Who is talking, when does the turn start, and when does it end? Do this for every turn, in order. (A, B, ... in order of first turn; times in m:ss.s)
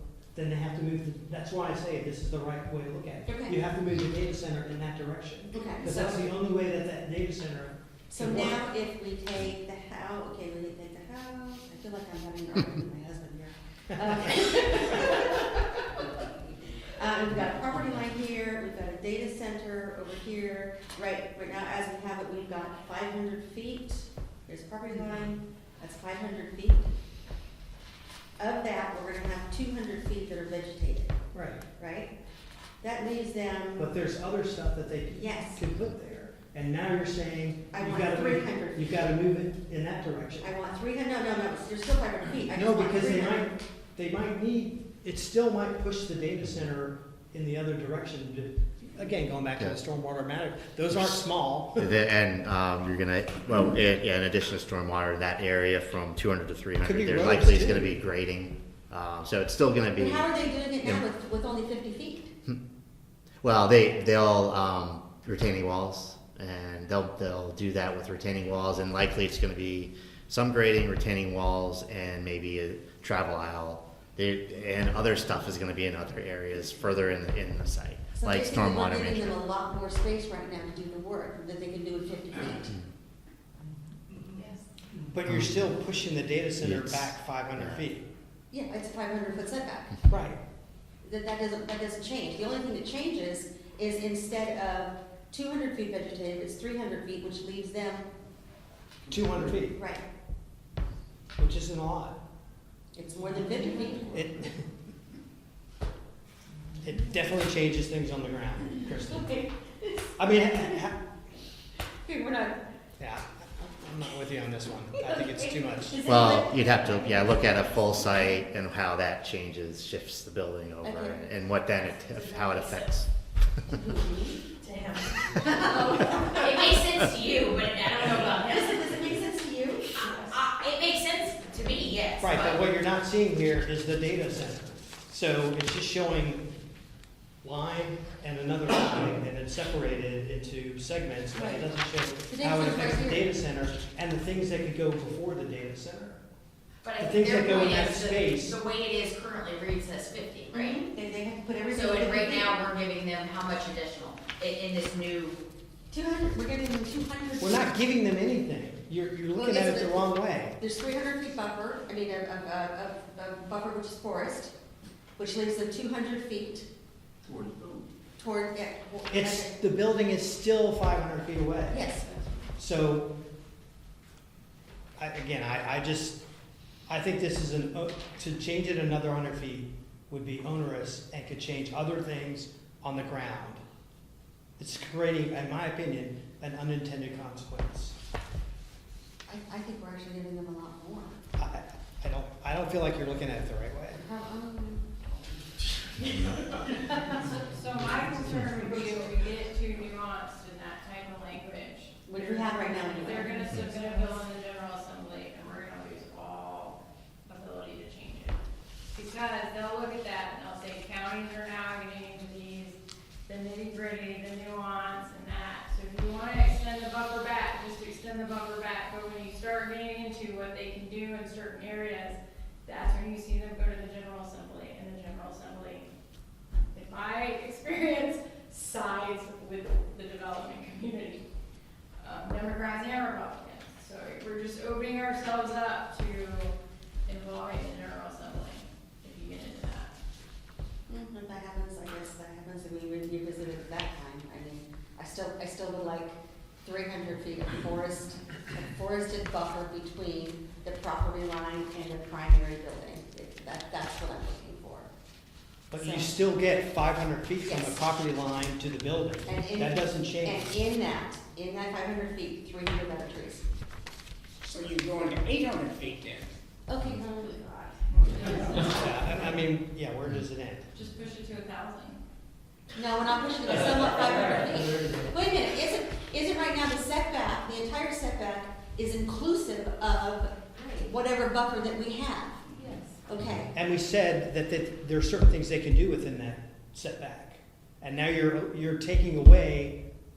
0:00.3-0:08.6 A
0:03.3-0:03.6 B
0:05.5-0:06.3 B
0:08.1-0:26.9 B
0:28.4-0:31.1 B
0:31.3-0:31.6 A
0:31.8-0:32.1 B
0:32.8-0:33.9 B
0:33.8-0:40.5 A
0:35.1-0:35.6 B
0:37.7-0:39.1 B
0:40.4-0:43.4 B
0:42.5-0:51.9 A
0:50.9-0:51.2 C
0:51.8-1:00.3 C
0:56.8-0:57.9 A
1:00.0-1:02.3 B
1:03.4-1:19.4 C
1:18.2-1:22.8 B
1:25.1-1:28.1 A
1:25.2-1:25.7 C
1:26.6-1:27.9 C
1:28.5-1:30.0 B
1:30.1-1:30.4 A
1:31.0-1:38.1 B
1:39.1-1:39.8 A
1:39.7-1:40.0 B
1:41.4-1:42.2 A
1:42.9-1:44.3 B
1:44.1-1:44.6 A
1:46.8-1:49.3 A
1:49.1-1:50.8 B
1:50.2-1:51.0 A
1:51.9-1:52.6 B
1:53.0-1:56.0 A
1:55.0-1:57.6 B
1:56.0-2:03.1 C
2:00.8-2:01.2 B
2:02.0-2:02.8 B
2:03.7-2:06.9 B
2:06.4-2:08.4 D
2:06.8-2:07.2 C
2:08.0-2:10.4 B
2:10.4-2:12.5 D
2:12.2-2:16.4 A
2:17.4-2:26.2 A
2:21.3-2:21.6 B
2:22.3-2:23.3 B
2:26.8-2:30.6 D
2:27.0-2:28.6 A
2:30.5-2:32.7 B
2:31.8-2:35.4 D
2:35.9-2:37.7 B
2:37.4-2:40.6 A
2:39.3-2:44.5 B
2:45.2-2:46.7 B
2:47.3-2:47.8 E
2:48.2-2:49.5 B
2:49.1-2:51.8 A
2:51.7-2:52.3 B
2:52.6-2:53.1 A
2:55.0-2:56.2 A
2:56.9-3:03.6 A
3:04.6-3:08.0 A
3:09.3-3:11.2 B
3:11.4-3:14.0 A
3:13.9-3:14.8 B
3:16.0-3:28.4 F
3:22.1-3:23.5 B
3:28.9-3:45.9 F
3:46.7-3:51.2 F
3:52.0-3:56.5 F
3:57.0-3:59.9 F
4:00.9-4:14.9 B
4:15.7-4:20.6 A
4:15.8-4:16.2 B
4:17.4-4:17.9 B
4:19.2-4:23.4 B
4:24.4-4:26.3 E
4:26.7-4:27.5 B
4:27.4-4:29.3 F
4:28.6-4:30.7 A
4:30.7-4:32.0 F
4:32.7-4:42.4 B
4:43.1-4:43.5 B
4:43.5-4:49.8 A